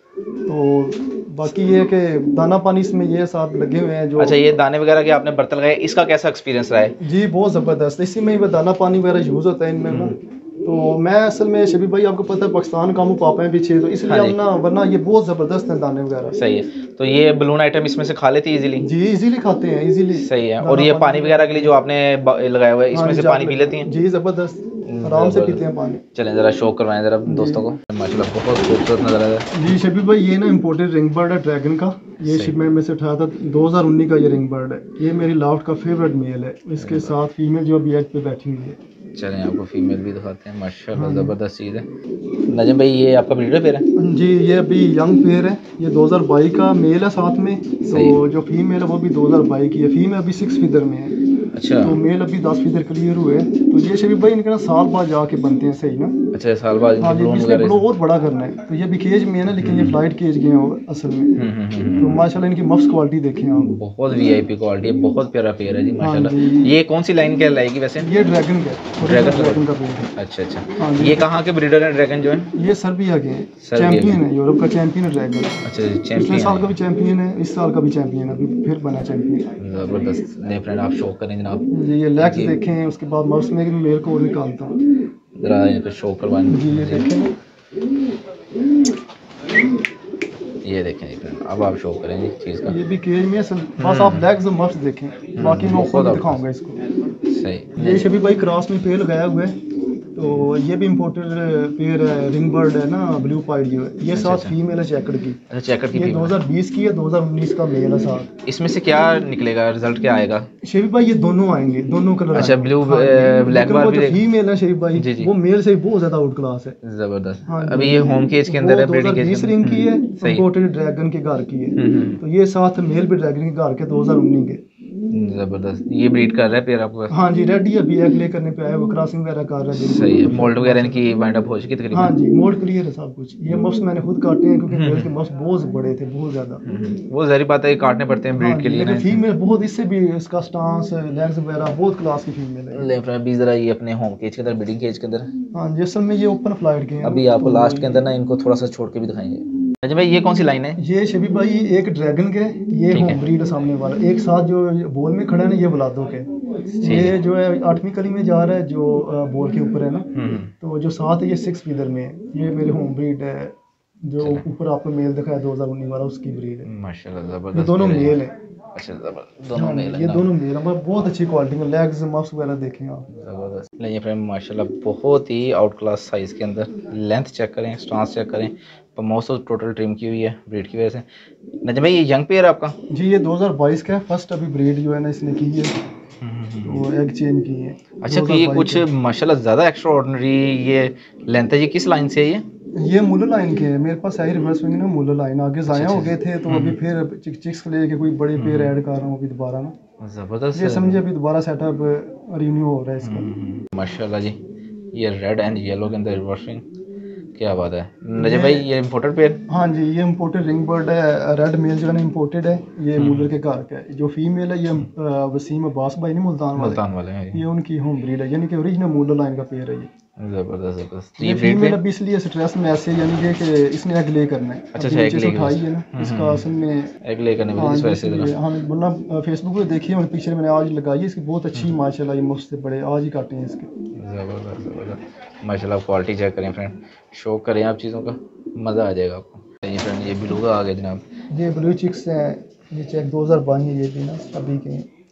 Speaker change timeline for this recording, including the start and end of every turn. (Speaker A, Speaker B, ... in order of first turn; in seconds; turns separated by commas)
Speaker A: 0.5-4.4, Speaker B: 4.2-7.0, Speaker A: 7.0-16.4, Speaker B: 9.9-10.1, Speaker B: 14.1-14.4, Speaker B: 16.3-18.9, Speaker A: 18.8-21.7, Speaker B: 20.1-23.9, Speaker A: 22.9-26.0, Speaker B: 24.9-29.8, Speaker A: 27.2-27.6, Speaker A: 29.5-38.8, Speaker B: 32.2-32.5, Speaker B: 36.8-37.1, Speaker B: 39.1-41.9, Speaker A: 40.9-41.3, Speaker B: 42.5-43.9, Speaker A: 43.9-51.2, Speaker B: 47.9-48.2, Speaker B: 51.5-52.0, Speaker A: 51.8-56.2, Speaker B: 56.3-57.8, Speaker A: 57.0-61.4, Speaker B: 59.5-60.0, Speaker B: 61.4-62.3, Speaker A: 62.0-63.7, Speaker B: 63.6-68.1, Speaker A: 66.0-66.8, Speaker A: 68.0-70.1, Speaker B: 69.0-72.5, Speaker A: 70.8-71.3, Speaker A: 72.5-75.6, Speaker B: 73.6-74.2, Speaker B: 75.6-76.7, Speaker A: 76.1-79.5, Speaker B: 79.6-81.7, Speaker A: 81.7-84.8, Speaker B: 82.2-82.6, Speaker B: 85.4-87.1, Speaker A: 86.5-87.3, Speaker B: 90.6-92.8, Speaker A: 92.6-96.8, Speaker B: 93.8-94.3, Speaker B: 95.3-96.4, Speaker B: 97.2-98.1, Speaker A: 97.7-99.6, Speaker A: 100.1-105.4, Speaker B: 104.1-104.5, Speaker B: 105.5-106.3, Speaker A: 105.9-108.3, Speaker B: 108.5-110.5, Speaker A: 110.6-116.8, Speaker B: 112.3-114.2, Speaker B: 114.9-115.3, Speaker B: 116.8-120.4, Speaker A: 117.4-124.6, Speaker B: 121.7-122.2, Speaker B: 125.1-127.2, Speaker A: 127.1-131.0, Speaker B: 129.7-132.1, Speaker A: 131.9-136.6, Speaker B: 134.7-135.1, Speaker B: 136.6-139.2, Speaker A: 138.4-142.8, Speaker B: 142.7-145.3, Speaker A: 145.5-148.1, Speaker B: 147.0-150.8, Speaker A: 150.8-160.1, Speaker B: 152.9-153.2, Speaker B: 156.8-157.2, Speaker B: 160.1-160.5, Speaker A: 160.6-166.7, Speaker B: 166.7-168.2, Speaker A: 167.5-168.3, Speaker B: 168.7-170.3, Speaker A: 169.5-173.1, Speaker B: 173.1-181.1, Speaker B: 181.6-182.7, Speaker A: 182.9-185.7, Speaker B: 186.2-186.8, Speaker A: 186.6-188.8, Speaker B: 188.0-192.4, Speaker A: 192.8-199.7, Speaker B: 195.7-196.8, Speaker B: 198.3-198.7, Speaker B: 200.0-201.0, Speaker A: 200.5-203.3, Speaker B: 203.0-204.4, Speaker B: 204.9-206.6, Speaker B: 207.3-209.4, Speaker A: 208.2-208.7, Speaker A: 209.5-216.8, Speaker B: 212.9-213.3, Speaker B: 216.5-217.4, Speaker A: 217.3-219.9, Speaker B: 220.2-221.8, Speaker A: 221.2-226.9, Speaker B: 224.7-226.4, Speaker B: 227.0-228.3, Speaker A: 227.6-233.7, Speaker B: 233.9-241.0, Speaker A: 241.3-244.9